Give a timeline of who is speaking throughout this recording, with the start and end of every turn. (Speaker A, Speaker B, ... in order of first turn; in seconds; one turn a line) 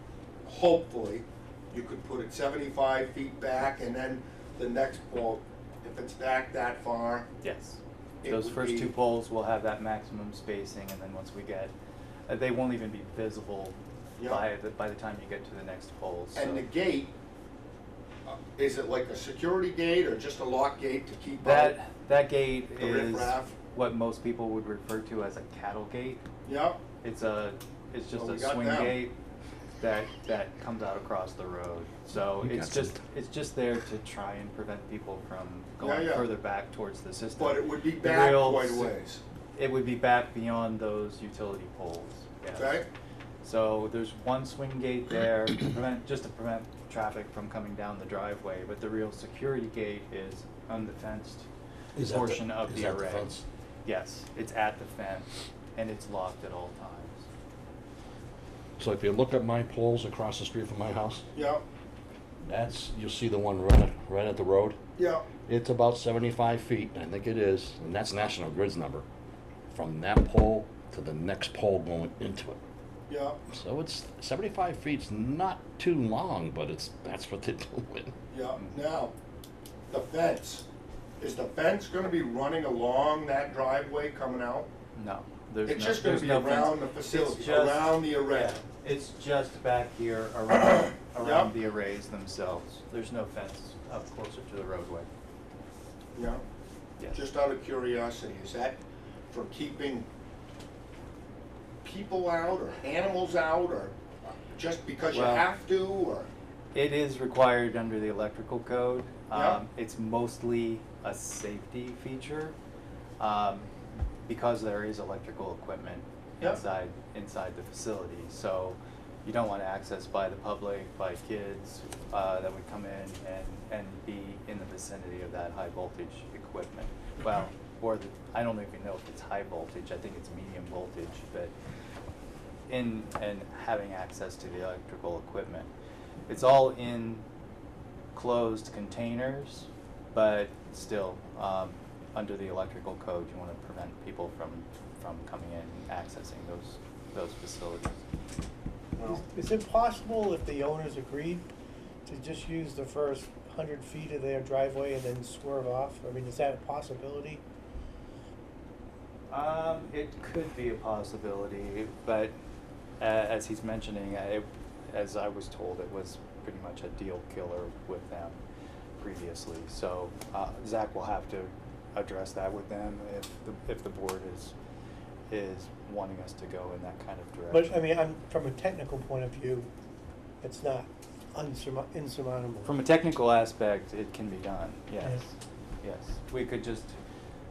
Speaker A: 0.4-7.3
Speaker B: 7.4-11.7
Speaker A: 8.2-8.9
Speaker B: 12.3-16.6
Speaker A: 14.2-14.4
Speaker A: 16.3-17.1
Speaker A: 18.2-21.7
Speaker B: 21.4-26.2
Speaker A: 22.7-23.5
Speaker A: 26.4-26.8
Speaker B: 27.0-29.1
Speaker A: 28.1-29.0
Speaker B: 29.8-38.9
Speaker C: 32.4-32.9
Speaker A: 35.8-36.3
Speaker A: 37.4-39.2
Speaker B: 39.5-42.8
Speaker A: 42.5-42.9
Speaker B: 43.4-51.5
Speaker C: 52.0-53.4
Speaker B: 52.0-53.3
Speaker B: 53.9-57.2
Speaker C: 58.8-61.2
Speaker A: 61.3-61.6
Speaker C: 62.4-64.8
Speaker A: 65.0-65.2
Speaker C: 65.5-69.0
Speaker C: 69.7-72.6
Speaker A: 73.1-73.4
Speaker C: 73.5-78.1
Speaker A: 78.3-79.1
Speaker A: 79.9-80.7
Speaker A: 81.2-84.7
Speaker B: 84.9-95.1
Speaker A: 85.6-88.6
Speaker A: 90.7-91.5
Speaker A: 96.1-96.4
Speaker A: 97.1-98.8
Speaker A: 99.3-100.1
Speaker A: 101.8-106.3
Speaker B: 105.1-105.5
Speaker B: 106.7-112.5
Speaker A: 109.3-109.6
Speaker B: 113.2-113.7
Speaker B: 114.3-131.5
Speaker B: 132.7-135.7
Speaker B: 136.3-137.2
Speaker B: 138.1-148.0
Speaker A: 149.0-149.2
Speaker D: 149.1-151.5
Speaker D: 152.0-157.4
Speaker B: 159.3-162.3
Speaker B: 163.0-168.4
Speaker B: 169.0-174.5
Speaker B: 175.3-177.8
Speaker D: 177.5-179.7
Speaker D: 180.4-182.8
Speaker B: 182.6-187.0